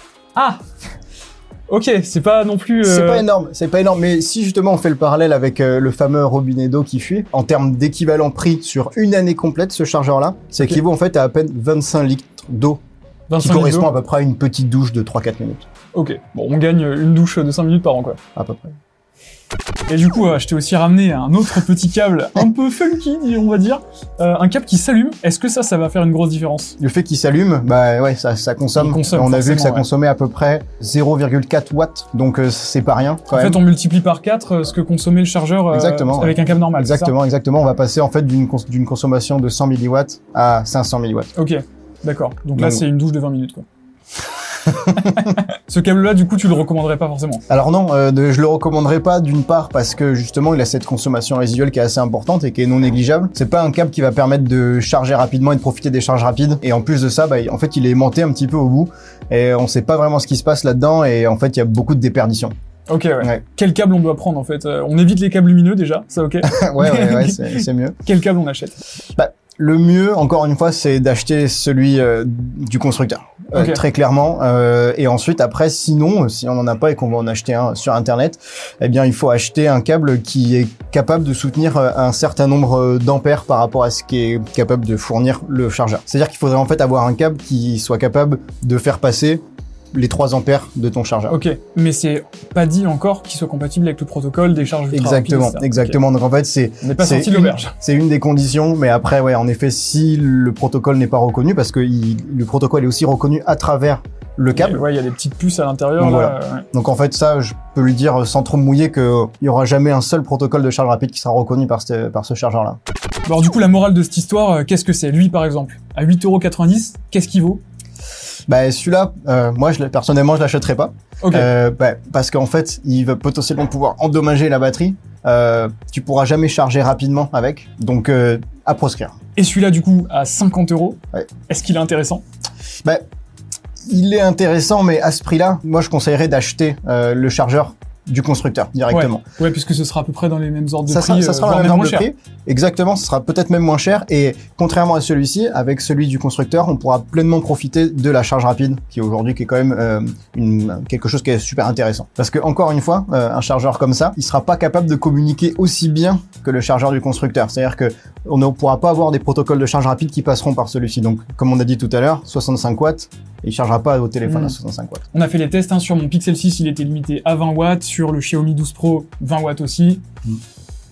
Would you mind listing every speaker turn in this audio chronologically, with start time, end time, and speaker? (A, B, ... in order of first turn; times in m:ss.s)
0:00.4-0:00.6 A
0:01.7-0:03.2 A
0:02.8-0:12.8 B
0:13.3-0:13.9 A
0:13.4-0:15.7 B
0:15.9-0:18.2 A
0:18.4-0:18.8 B
0:19.9-0:26.8 A
0:26.8-0:33.6 B
0:28.8-0:29.9 A
0:33.3-0:37.1 A
0:35.7-0:41.3 B
0:41.4-0:43.7 A
0:42.6-0:42.9 B
0:44.7-0:47.4 A
0:47.5-1:02.6 B
1:02.9-1:08.8 A
1:06.4-1:08.0 B
1:09.2-1:31.4 B
1:13.6-1:13.8 A
1:31.3-1:36.0 A
1:34.9-1:44.8 B
1:36.8-1:37.7 A
1:44.6-1:46.7 A
1:46.0-1:52.8 B
1:53.3-1:57.6 A
1:58.5-2:09.2 B
2:01.2-2:01.5 A
2:09.4-2:12.2 A
2:13.9-2:19.2 B
2:18.9-2:22.1 A
2:20.9-2:45.0 B
2:44.2-2:44.6 A
2:45.1-2:50.0 A